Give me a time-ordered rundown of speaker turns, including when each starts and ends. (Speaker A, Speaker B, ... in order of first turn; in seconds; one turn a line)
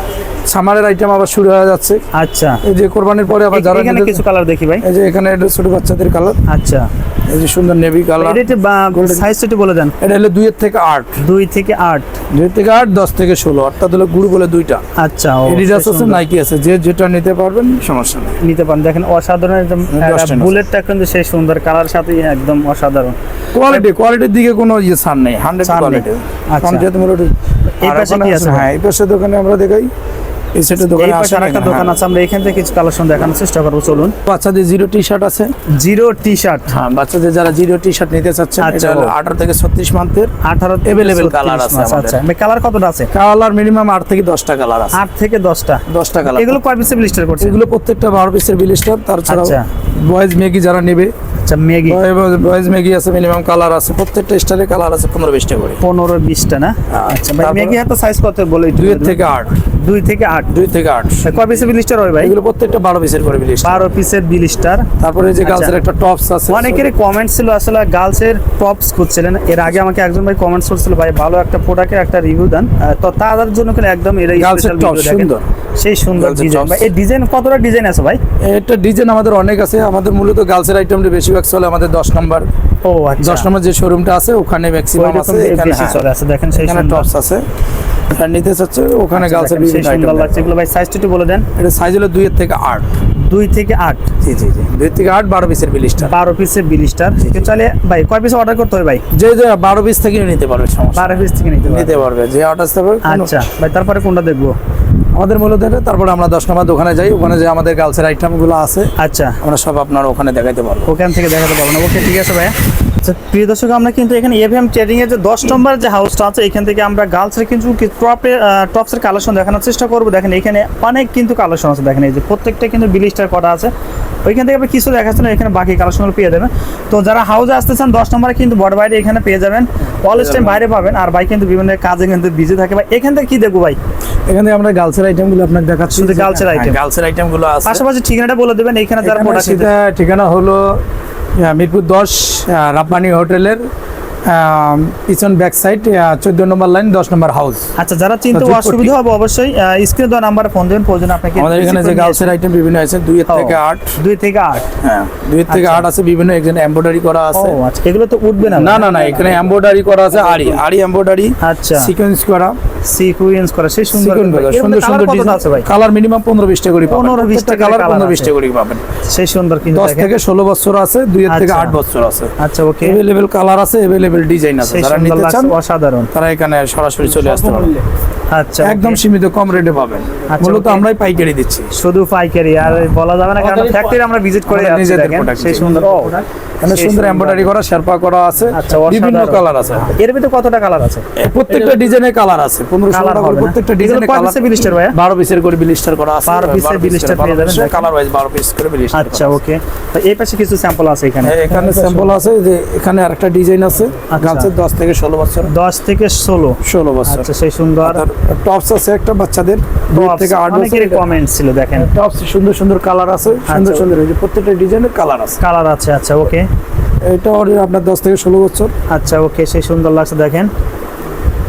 Speaker A: 0.5-2.0
Speaker B: 2.1-2.6
Speaker A: 2.6-4.2
Speaker B: 3.5-4.8
Speaker A: 4.8-6.4
Speaker B: 6.5-6.9
Speaker A: 7.3-8.4
Speaker B: 8.2-9.9
Speaker A: 8.9-9.2
Speaker A: 10.0-11.2
Speaker B: 11.2-12.1
Speaker A: 12.3-14.8
Speaker B: 15.0-16.2
Speaker A: 15.4-18.3
Speaker B: 18.4-23.9
Speaker A: 19.9-20.6
Speaker A: 23.5-29.9
Speaker B: 25.6-26.9
Speaker B: 27.8-28.7
Speaker A: 30.5-32.0
Speaker B: 30.8-34.1
Speaker A: 34.2-35.5
Speaker B: 35.7-36.7
Speaker A: 36.7-40.3
Speaker B: 38.6-39.1
Speaker B: 40.4-43.1
Speaker A: 40.8-42.2
Speaker A: 43.1-45.0
Speaker B: 44.9-47.5
Speaker A: 45.9-46.6
Speaker A: 47.4-51.1
Speaker B: 49.3-49.7
Speaker B: 51.5-52.0
Speaker A: 51.8-55.8
Speaker B: 55.8-59.2
Speaker A: 56.9-57.8
Speaker A: 58.8-59.5
Speaker B: 59.7-60.5
Speaker A: 60.5-61.3
Speaker B: 61.2-62.3
Speaker A: 62.2-63.9
Speaker B: 63.6-64.9
Speaker A: 65.0-66.9
Speaker B: 65.4-65.7
Speaker B: 66.5-78.2
Speaker A: 74.3-75.4
Speaker A: 76.1-76.9
Speaker A: 78.4-82.5
Speaker B: 82.8-83.5
Speaker A: 83.2-86.0
Speaker B: 85.0-87.1
Speaker A: 86.5-87.4
Speaker A: 88.1-90.5
Speaker B: 89.1-91.5
Speaker A: 91.5-92.9
Speaker B: 93.2-94.1
Speaker A: 94.2-96.1
Speaker B: 96.0-99.0
Speaker A: 97.2-97.5
Speaker A: 99.1-103.4
Speaker B: 100.9-102.0
Speaker B: 103.0-104.6
Speaker A: 105.2-108.9
Speaker B: 109.0-109.4
Speaker A: 109.4-110.9
Speaker B: 110.8-123.7
Speaker B: 124.2-133.8
Speaker A: 130.1-130.6
Speaker A: 134.3-137.8
Speaker B: 135.9-136.8
Speaker B: 137.6-139.7
Speaker A: 139.0-140.8
Speaker A: 141.3-143.6
Speaker A: 144.2-147.7
Speaker B: 147.8-152.3
Speaker A: 148.3-148.9
Speaker A: 151.3-153.9
Speaker B: 153.3-154.7
Speaker A: 154.8-157.6
Speaker B: 155.5-155.9
Speaker B: 157.3-159.5
Speaker A: 158.4-162.6
Speaker B: 160.1-160.6
Speaker B: 161.4-161.9
Speaker B: 162.8-165.7
Speaker A: 163.9-168.8
Speaker B: 166.8-168.3
Speaker B: 169.0-170.1
Speaker A: 169.7-172.3
Speaker B: 171.3-171.8
Speaker B: 172.4-173.0
Speaker A: 172.8-175.5
Speaker B: 174.6-176.1
Speaker A: 176.1-177.8
Speaker B: 178.3-179.0
Speaker A: 178.6-181.7
Speaker B: 180.3-180.8
Speaker B: 181.7-187.5
Speaker A: 182.6-189.9
Speaker B: 188.5-191.8
Speaker A: 191.2-199.4
Speaker B: 192.9-195.0
Speaker B: 196.2-197.9
Speaker B: 198.9-202.1
Speaker A: 201.2-205.5
Speaker B: 204.1-204.5
Speaker B: 205.4-208.0
Speaker A: 206.6-207.3
Speaker A: 207.8-211.1
Speaker B: 209.9-211.9
Speaker A: 211.7-215.4
Speaker B: 213.5-213.9
Speaker B: 215.4-216.5
Speaker A: 217.0-218.7
Speaker B: 218.9-220.5